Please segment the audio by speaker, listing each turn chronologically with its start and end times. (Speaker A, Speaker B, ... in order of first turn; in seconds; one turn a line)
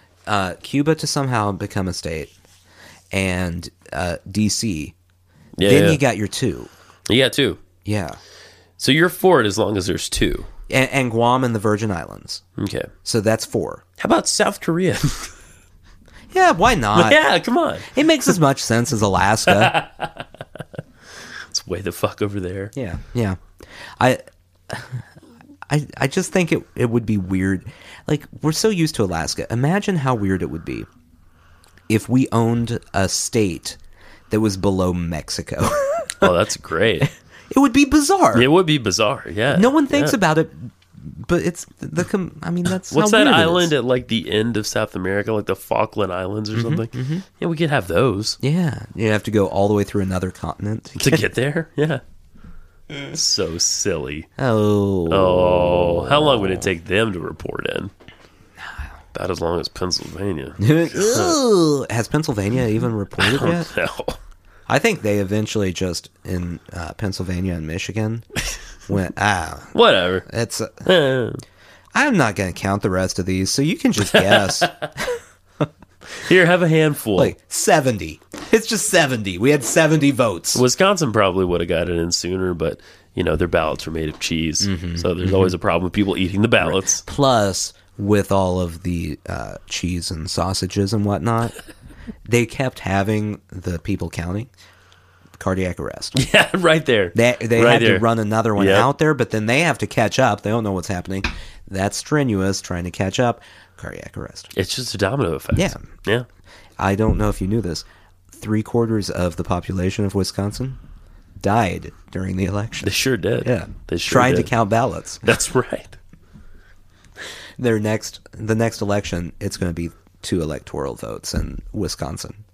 Speaker A: 0.3-2.3
Speaker A: 3.1-5.0
Speaker B: 5.6-6.0
Speaker A: 5.6-6.7
Speaker B: 7.1-7.6
Speaker A: 7.8-8.2
Speaker B: 8.8-10.5
Speaker A: 10.7-12.4
Speaker B: 12.6-12.9
Speaker A: 13.0-13.8
Speaker B: 14.0-15.3
Speaker A: 16.3-17.2
Speaker B: 16.9-18.0
Speaker A: 17.9-19.8
Speaker B: 19.5-20.2
Speaker B: 21.5-22.7
Speaker A: 22.8-23.4
Speaker A: 24.0-25.0
Speaker A: 25.7-30.9
Speaker A: 31.9-33.8
Speaker A: 34.3-36.3
Speaker B: 36.2-37.1
Speaker A: 37.5-38.5
Speaker B: 38.3-40.2
Speaker A: 39.5-43.7
Speaker B: 42.9-48.4
Speaker A: 46.5-47.2
Speaker A: 48.4-51.2
Speaker B: 51.0-52.0
Speaker B: 53.1-54.3
Speaker A: 54.4-55.8
Speaker B: 55.1-57.9
Speaker B: 59.1-61.4
Speaker A: 60.6-63.7
Speaker B: 63.2-64.2
Speaker A: 64.7-68.3
Speaker A: 68.9-70.9
Speaker B: 69.7-70.3
Speaker B: 70.8-71.4
Speaker A: 71.9-75.7
Speaker B: 74.1-74.7
Speaker B: 76.1-77.3
Speaker A: 77.2-80.6
Speaker B: 80.5-87.0
Speaker A: 84.6-85.5
Speaker A: 86.6-91.5
Speaker A: 92.3-94.5
Speaker A: 95.4-96.2
Speaker B: 96.2-98.9
Speaker A: 97.1-104.5
Speaker B: 104.5-106.3
Speaker A: 105.5-105.8
Speaker A: 106.8-110.8
Speaker A: 111.4-115.2
Speaker B: 112.8-114.5
Speaker B: 115.2-116.0
Speaker A: 117.6-122.4